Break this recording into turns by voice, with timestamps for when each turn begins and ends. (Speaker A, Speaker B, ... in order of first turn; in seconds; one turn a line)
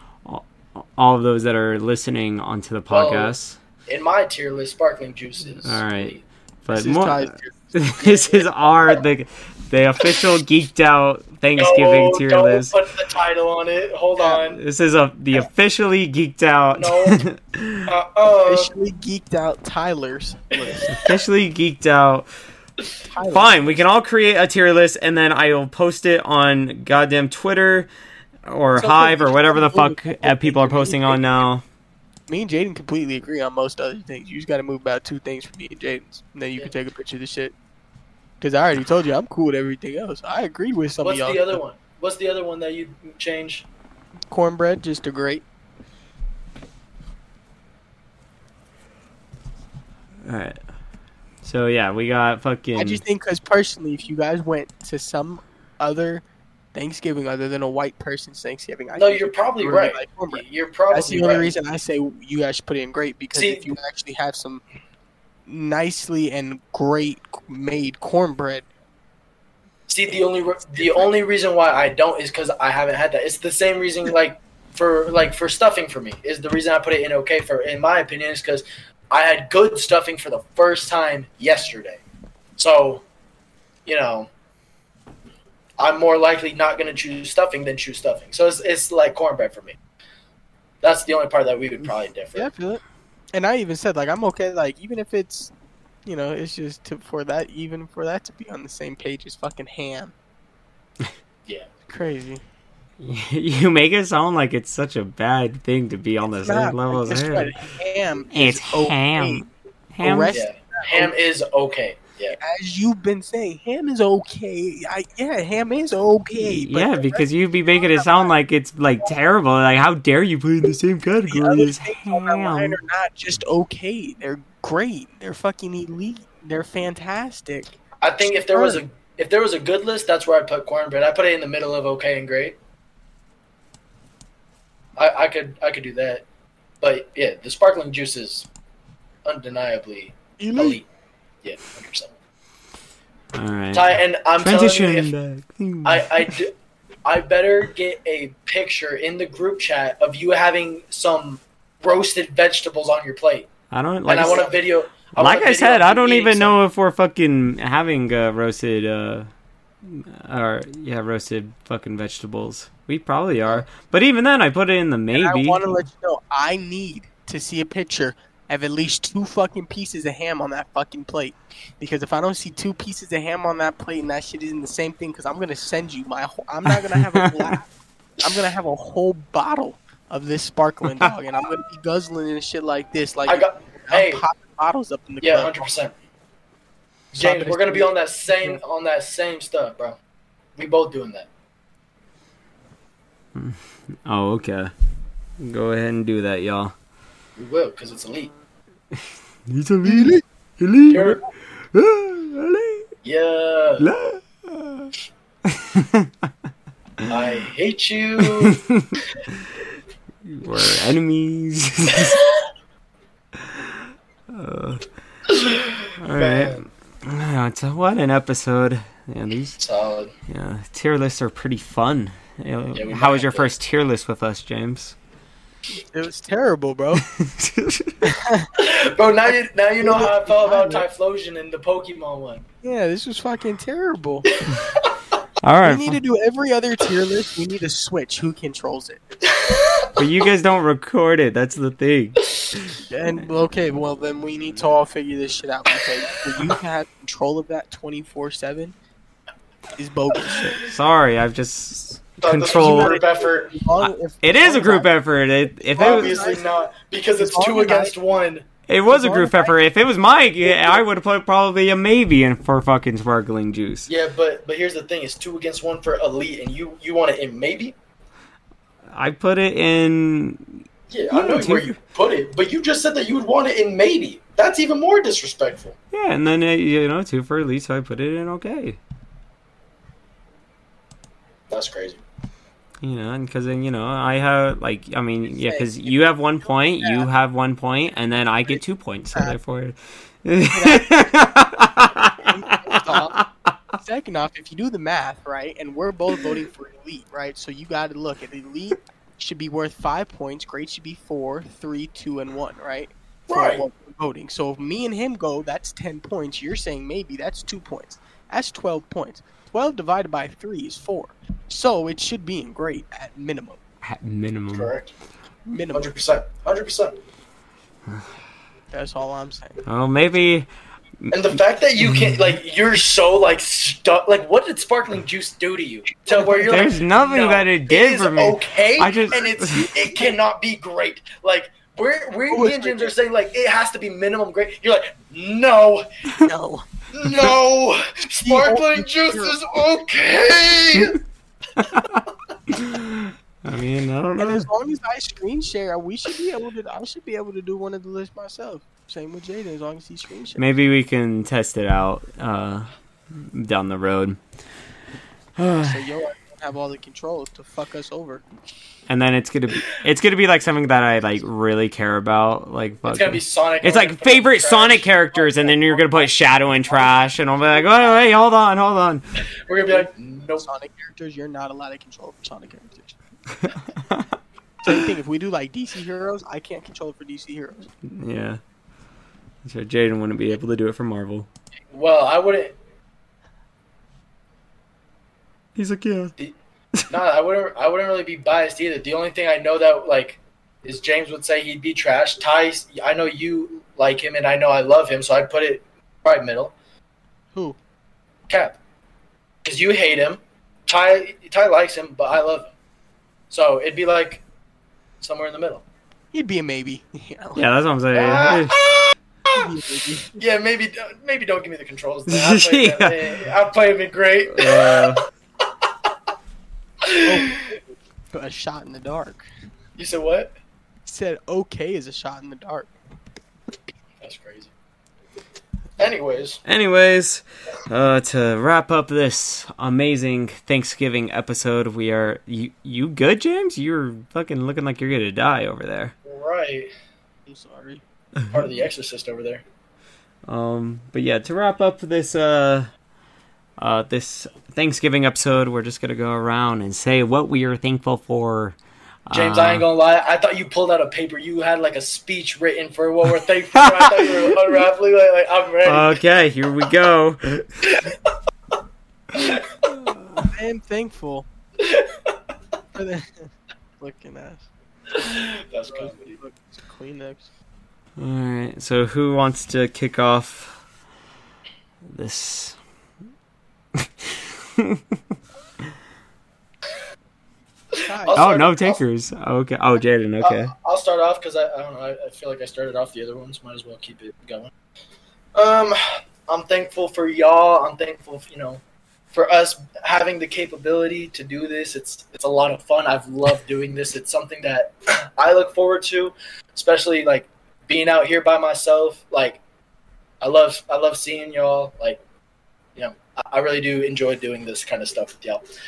Speaker A: 0.2-3.6
Speaker B: 2.9-3.3
Speaker B: 3.9-6.2
Speaker A: 5.6-12.7
Speaker C: 6.7-7.8
Speaker B: 8.0-9.0
Speaker B: 11.6-14.6
Speaker A: 14.4-17.9
Speaker B: 16.7-17.2
Speaker B: 17.9-18.7
Speaker C: 18.4-21.0
Speaker A: 20.9-22.3
Speaker C: 23.1-23.8
Speaker A: 23.3-27.9
Speaker A: 28.4-31.6
Speaker C: 28.8-31.4
Speaker C: 32.3-37.5
Speaker C: 38.4-41.6
Speaker B: 41.0-43.6
Speaker C: 44.3-45.4
Speaker A: 50.2-50.6
Speaker A: 51.4-53.0
Speaker C: 52.8-56.2
Speaker C: 56.7-64.6
Speaker B: 59.0-61.5
Speaker B: 63.3-63.7
Speaker C: 65.5-68.7
Speaker B: 69.9-82.0
Speaker C: 70.7-71.1
Speaker B: 82.6-83.0
Speaker B: 83.9-84.3
Speaker B: 85.8-89.8
Speaker B: 90.8-92.5
Speaker C: 92.3-92.8
Speaker C: 93.3-95.5
Speaker C: 96.0-100.1
Speaker C: 101.9-102.4
Speaker A: 103.0-107.6
Speaker C: 106.3-109.4
Speaker A: 108.3-110.4
Speaker C: 110.0-111.1
Speaker B: 110.3-112.4
Speaker C: 112.4-118.3
Speaker A: 116.4-122.8
Speaker C: 121.3-127.7
Speaker B: 128.0-132.6
Speaker C: 128.3-128.8
Speaker B: 135.0-136.2
Speaker B: 136.8-138.5
Speaker B: 139.2-140.8
Speaker C: 140.4-140.8
Speaker B: 141.4-142.1
Speaker A: 143.3-146.4
Speaker B: 143.7-145.1
Speaker B: 145.8-146.5
Speaker B: 147.1-153.5
Speaker A: 153.7-154.5
Speaker B: 154.1-156.6
Speaker A: 155.2-159.3
Speaker A: 159.8-165.6
Speaker C: 165.1-177.7
Speaker A: 176.7-177.6
Speaker C: 178.2-185.7
Speaker B: 183.3-184.2
Speaker B: 185.2-185.9
Speaker B: 187.1-190.0
Speaker C: 187.1-188.6
Speaker B: 190.6-191.3
Speaker A: 193.3-194.7
Speaker A: 195.4-196.7
Speaker B: 197.4-198.3
Speaker A: 198.9-202.9
Speaker C: 199.9-200.2
Speaker B: 200.9-201.2
Speaker B: 203.0-203.9
Speaker A: 203.8-204.9
Speaker A: 205.4-206.3
Speaker B: 207.1-208.6
Speaker A: 208.2-209.5
Speaker A: 210.2-212.2
Speaker B: 211.9-212.2
Speaker A: 213.4-214.9
Speaker B: 215.3-216.6
Speaker A: 216.0-219.6
Speaker B: 219.6-220.1
Speaker A: 220.3-225.0
Speaker B: 222.7-223.5
Speaker C: 225.9-227.1
Speaker A: 226.9-228.1
Speaker C: 228.0-228.5
Speaker B: 228.6-232.4
Speaker C: 229.8-230.8
Speaker C: 232.6-234.3
Speaker B: 234.4-234.9
Speaker A: 235.4-236.0
Speaker C: 235.6-239.0
Speaker B: 239.3-239.9
Speaker A: 240.0-243.2
Speaker C: 242.9-248.7
Speaker C: 249.8-250.6
Speaker A: 250.5-253.0
Speaker B: 252.2-253.6
Speaker C: 252.5-254.9
Speaker A: 253.8-256.3
Speaker C: 255.7-256.4
Speaker B: 255.8-258.4
Speaker C: 257.1-257.9
Speaker A: 258.7-263.9
Speaker C: 258.9-259.6
Speaker C: 260.5-260.7
Speaker B: 263.9-267.7
Speaker A: 268.9-271.7
Speaker B: 270.9-275.7
Speaker A: 275.9-278.8
Speaker B: 281.5-282.0
Speaker A: 282.8-293.3
Speaker C: 285.3-287.1
Speaker C: 290.4-291.1
Speaker C: 292.2-293.2
Speaker C: 293.8-313.6
Speaker B: 303.3-303.7
Speaker A: 313.8-314.7
Speaker B: 314.5-314.9
Speaker C: 315.5-315.9
Speaker B: 315.7-317.0
Speaker C: 318.7-319.6
Speaker A: 319.6-320.5
Speaker A: 321.0-322.4
Speaker B: 321.1-335.9
Speaker C: 326.1-326.5
Speaker A: 326.5-329.7
Speaker C: 329.5-329.9
Speaker C: 332.3-332.9
Speaker C: 336.2-336.7
Speaker B: 336.9-341.0
Speaker C: 338.2-339.4
Speaker A: 341.6-344.5
Speaker C: 344.2-350.5
Speaker A: 350.4-354.2
Speaker A: 355.4-355.8
Speaker C: 355.5-358.2
Speaker A: 358.9-369.0
Speaker B: 362.8-366.9
Speaker B: 369.4-370.5
Speaker C: 370.4-373.0
Speaker A: 373.4-374.1
Speaker C: 374.6-377.7
Speaker A: 377.8-378.4
Speaker A: 379.4-381.3
Speaker B: 381.7-382.6
Speaker A: 385.6-386.1
Speaker B: 386.9-396.5
Speaker B: 398.3-398.6
Speaker B: 399.4-402.5
Speaker B: 403.3-404.2
Speaker B: 405.0-405.6
Speaker C: 406.1-407.4
Speaker A: 407.4-408.6
Speaker B: 407.9-409.4
Speaker C: 409.3-410.1
Speaker B: 410.1-415.0
Speaker A: 412.1-413.3
Speaker A: 414.3-415.0
Speaker B: 416.8-417.6
Speaker C: 417.1-417.3
Speaker C: 418.1-419.2
Speaker B: 419.8-420.3
Speaker C: 420.9-422.7
Speaker B: 424.0-424.5
Speaker B: 425.8-426.4
Speaker A: 426.4-435.9
Speaker B: 436.1-436.7
Speaker C: 437.3-437.8
Speaker B: 438.3-439.4
Speaker A: 440.3-442.7
Speaker A: 443.6-449.6
Speaker B: 449.1-456.0
Speaker A: 453.6-454.6
Speaker A: 455.6-457.7
Speaker B: 457.7-457.9
Speaker B: 459.1-459.4
Speaker A: 459.6-460.3
Speaker C: 460.2-461.3
Speaker B: 461.6-462.0
Speaker C: 462.7-464.5
Speaker B: 464.9-466.2
Speaker C: 465.6-467.3
Speaker A: 468.0-470.6
Speaker A: 471.8-472.6
Speaker A: 473.8-475.0
Speaker B: 477.8-478.8
Speaker C: 477.8-478.3
Speaker A: 478.1-480.5
Speaker B: 480.2-484.5
Speaker B: 485.3-488.6
Speaker B: 489.1-499.4
Speaker B: 500.2-502.0
Speaker B: 502.8-505.4